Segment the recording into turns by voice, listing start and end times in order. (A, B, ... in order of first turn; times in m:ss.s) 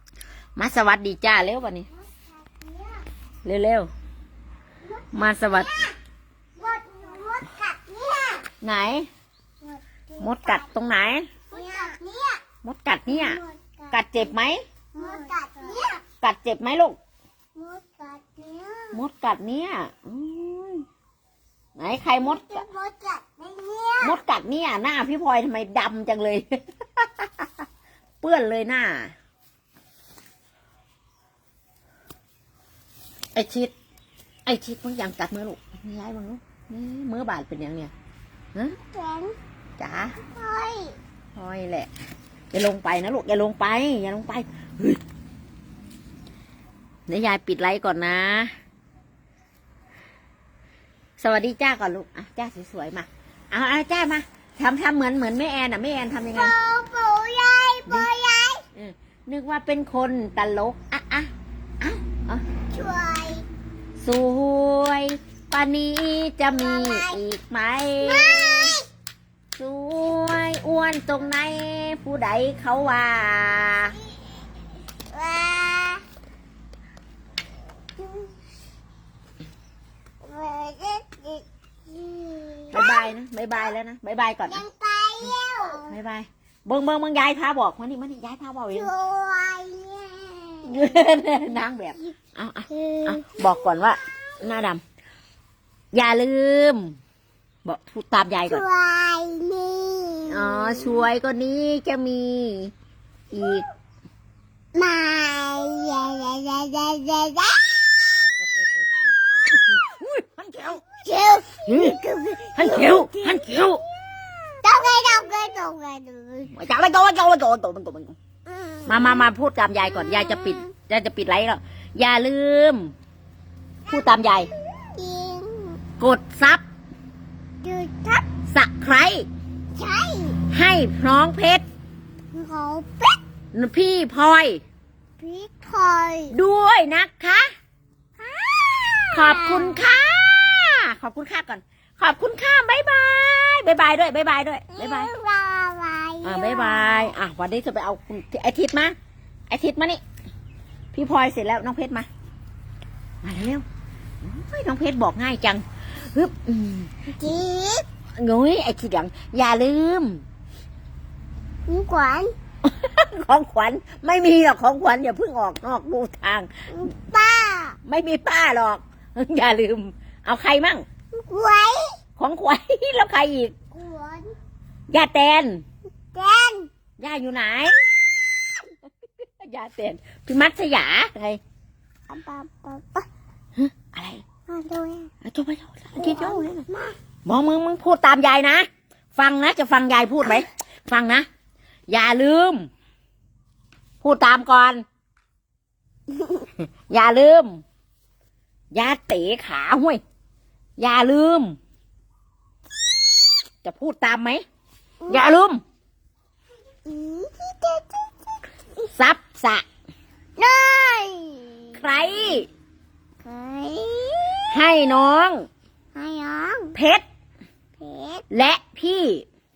0:00.6-0:01.9 A
0:02.6-0:03.0 B
0:03.4-0:03.9 A
0:05.1-0:05.8 A
0:05.2-0:05.9 B
0:06.6-0:08.5 B
0:08.6-0:09.1 A
0:09.6-0:10.7 B
0:10.2-0:11.3 A
0:11.5-0:12.4 B
0:12.6-0:13.4 A
0:13.1-0:14.0 B
0:13.9-0:14.6 A
0:14.9-0:16.0 B
0:16.2-0:17.0 A
0:17.6-0:19.0 B
0:18.9-0:20.8 A
0:21.8-0:22.6 A
0:22.2-0:24.2 B
0:24.0-0:27.5 A
0:28.2-0:29.1 A
0:33.4-0:33.7 A
0:34.5-0:37.9 A
0:38.8-0:39.4 B
0:39.8-0:40.2 A
0:40.2-0:41.0 B
0:41.4-0:41.9 A
0:42.5-0:45.0 A
0:47.1-0:48.5 A
0:51.2-0:56.5 A
0:56.3-0:58.6 B
0:58.8-1:02.4 A
1:02.7-1:03.5 B
1:04.0-1:08.7 A
1:06.5-1:07.2 B
1:08.0-1:08.8 B
1:09.6-1:14.0 A
1:15.1-1:16.0 B
1:18.0-1:18.3 B
1:20.2-1:23.1 B
1:22.7-1:24.6 A
1:24.5-1:25.9 B
1:25.7-1:28.9 A
1:28.7-1:31.0 B
1:30.6-1:34.8 A
1:32.7-1:34.0 B
1:35.9-1:37.0 A
1:37.6-1:38.6 A
1:38.5-1:41.0 B
1:40.3-1:42.7 A
1:43.3-1:43.7 A
1:44.8-1:47.7 B
1:49.5-1:50.8 A
1:50.9-1:53.8 B
1:51.7-1:53.8 A
1:54.6-1:56.5 B
1:56.5-1:58.2 A
1:58.5-1:59.2 B
1:58.8-2:02.9 A
1:59.9-2:00.7 B
2:03.9-2:04.5 A
2:04.5-2:05.8 B
2:06.0-2:06.6 A
2:07.6-2:08.3 B
2:08.5-2:09.3 A
2:09.8-2:10.4 B
2:10.5-2:11.6 A
2:12.3-2:13.2 B
2:13.5-2:14.6 A
2:15.2-2:16.4 B
2:16.3-2:17.5 A
2:18.2-2:19.9 B
2:19.1-2:25.1 A
2:24.7-2:27.1 B
2:26.2-2:29.0 A
2:29.5-2:30.0 A
2:30.9-2:32.1 A
2:33.2-2:33.6 A
2:34.2-2:36.9 A
2:37.2-2:37.8 B
2:38.2-2:40.2 A
2:41.7-2:42.3 B
2:42.6-2:46.5 A
2:46.7-2:47.8 B
2:47.9-2:50.8 A
2:51.1-2:52.0 B
2:52.2-2:53.5 A
2:53.7-2:54.3 B
2:54.9-2:55.6 A
2:56.1-2:56.7 B
2:57.0-2:57.8 A
2:59.4-3:01.4 A
3:02.1-3:03.1 B
3:03.6-3:04.2 A
3:04.5-3:05.1 B
3:05.2-3:06.7 A
3:06.0-3:07.0 B
3:07.2-3:11.3 A
3:11.9-3:12.7 A
3:14.0-3:14.8 A
3:16.6-3:17.6 A
3:18.7-3:20.0 A
3:20.8-3:21.6 A
3:23.6-3:24.4 A
3:25.1-3:25.6 A
3:26.9-3:28.1 B
3:28.9-3:29.6 A
3:30.4-3:31.8 B
3:31.8-3:32.5 A
3:33.2-3:34.6 B
3:34.5-3:35.5 A
3:36.0-3:36.8 B
3:36.7-3:37.0 A
3:37.8-3:38.2 B
3:38.3-3:39.2 A